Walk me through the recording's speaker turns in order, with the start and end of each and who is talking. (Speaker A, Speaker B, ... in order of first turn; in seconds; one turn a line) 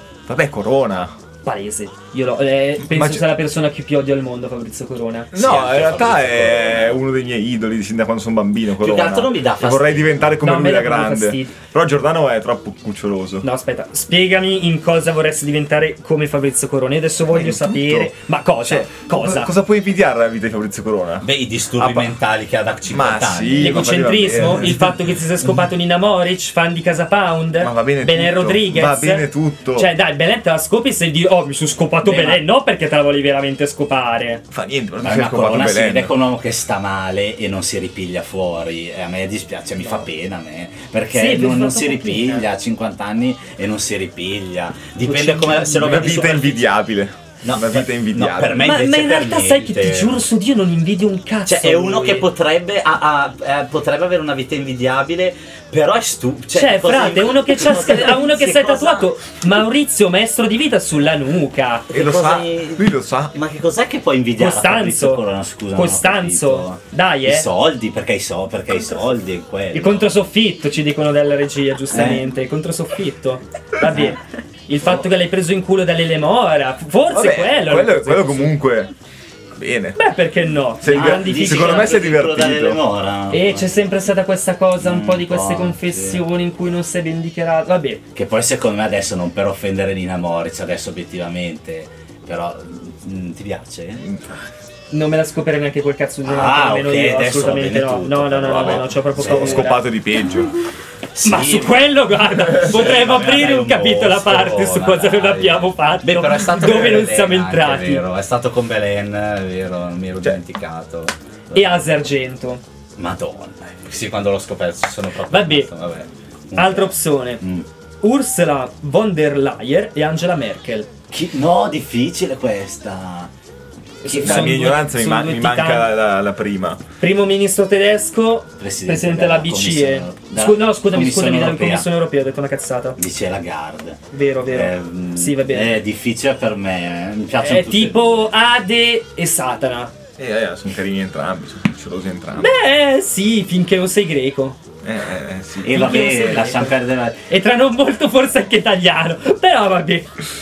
Speaker A: 0.3-1.1
Speaker B: 1.4-5.3
Speaker A: 2.8-3.3
Speaker A: 5.3-13.4
Speaker C: 5.3-7.0
Speaker C: 8.8-10.4
Speaker B: 10.4-11.6
Speaker B: 13.4-19.6
Speaker A: 17.3-18.1
Speaker A: 18.6-22.1
Speaker C: 21.2-23.9
Speaker A: 22.9-25.0
Speaker B: 23.6-34.4
Speaker A: 27.6-29.9
Speaker C: 32.0-32.4
Speaker A: 34.5-36.1
Speaker C: 35.0-46.7
Speaker B: 41.1-42.5
Speaker B: 45.0-46.2
Speaker A: 45.7-48.7
Speaker C: 47.4-50.3
Speaker B: 48.6-52.3
Speaker C: 51.5-59.1
Speaker B: 56.5-62.0
Speaker A: 61.9-63.4
Speaker C: 61.9-70.2
Speaker B: 64.4-67.5
Speaker B: 69.7-78.5
Speaker C: 71.9-72.3
Speaker C: 73.9-74.2
Speaker A: 77.1-78.9
Speaker A: 79.5-80.0
Speaker B: 80.0-81.9
Speaker A: 80.8-82.8
Speaker C: 80.9-83.8
Speaker B: 83.3-88.0
Speaker C: 84.8-86.2
Speaker C: 88.2-94.1
Speaker A: 94.0-94.3
Speaker B: 94.9-99.9
Speaker C: 96.2-99.8
Speaker A: 98.5-100.6
Speaker C: 101.1-111.9
Speaker B: 101.2-108.0
Speaker B: 111.5-112.6
Speaker C: 113.0-117.7
Speaker B: 115.3-115.7
Speaker B: 116.5-117.4
Speaker B: 118.0-120.9
Speaker C: 121.1-123.3
Speaker B: 124.0-125.9
Speaker C: 124.1-124.6
Speaker A: 124.2-126.8
Speaker B: 127.0-133.0
Speaker C: 128.6-131.9
Speaker C: 133.0-138.2
Speaker B: 134.1-135.8
Speaker B: 137.4-139.9
Speaker A: 140.2-142.5
Speaker B: 142.4-144.6
Speaker A: 144.8-145.9
Speaker C: 145.6-147.2
Speaker B: 145.7-146.8
Speaker B: 147.3-150.1